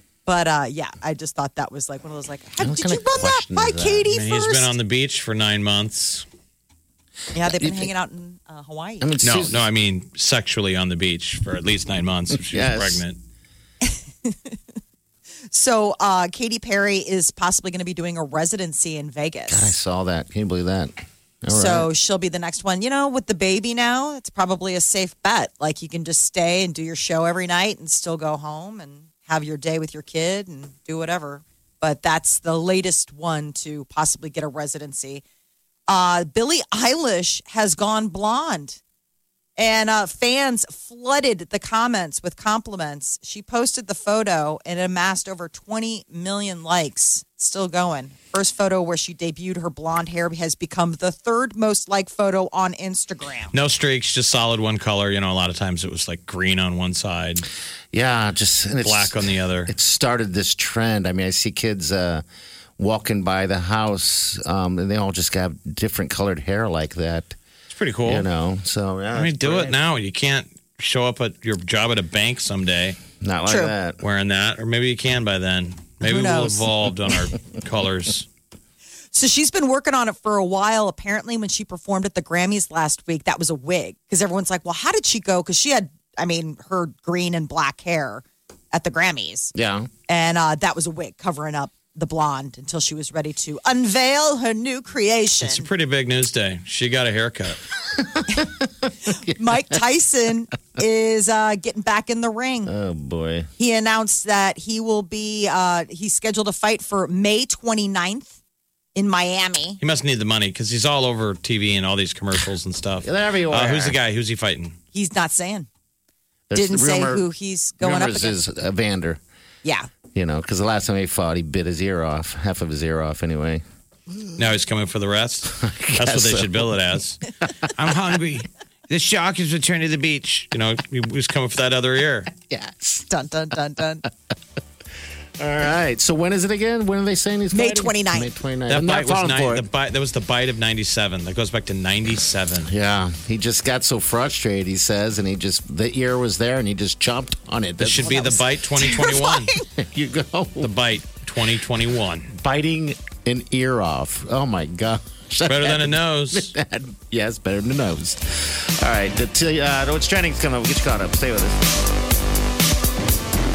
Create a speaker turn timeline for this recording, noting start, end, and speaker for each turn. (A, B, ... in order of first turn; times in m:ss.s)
0:00.2-0:04.7 A
0:02.6-0:04.1 B
0:04.1-0:06.2 C
0:07.3-0:09.1 A
0:07.3-0:07.9 B
0:09.0-0:09.7 B
0:09.2-0:13.2 C
0:12.3-0:13.0 B
0:13.8-0:14.6 A
0:15.5-0:19.7 A
0:19.5-0:21.9 B
0:21.5-0:35.2 A
0:35.9-0:38.8 A
0:39.6-0:53.5 A
0:53.5-0:57.4 C
0:57.9-1:02.2 B
0:58.8-0:59.7 C
1:02.8-1:07.4 B
1:07.7-1:08.2 C
1:08.0-1:09.8 B
1:09.1-1:13.0 C
1:13.2-1:14.0 B
1:13.4-1:13.7 A
1:14.0-1:18.3 C
1:16.0-1:16.7 A
1:19.1-1:29.5 A
1:29.5-1:29.9 B
1:30.1-1:35.7 A
1:35.4-1:37.6 C
1:39.0-1:42.7 A
1:42.6-1:43.5 B
1:43.6-1:48.3 A
1:48.9-1:49.8 A
1:49.8-1:54.7 C
1:53.0-1:54.0 B
1:54.9-1:55.7 A
1:56.5-1:57.2 B
1:56.5-1:58.4 A
1:57.8-1:59.2 B
1:59.6-1:59.9 A
2:00.1-2:03.6 B
2:04.4-2:07.2 C
2:05.5-2:06.8 B
2:07.7-2:12.3 C
2:12.5-2:13.0 B
2:13.0-2:14.0 A
2:15.4-2:19.7 B
2:17.5-2:18.3 A
2:18.7-2:22.7 C
2:22.6-2:28.3 B
2:27.8-2:29.5 C
2:28.0-2:29.6 A
2:29.8-2:30.7 B
2:30.6-2:32.3 C
2:32.3-2:41.6 B
2:35.4-2:36.5 C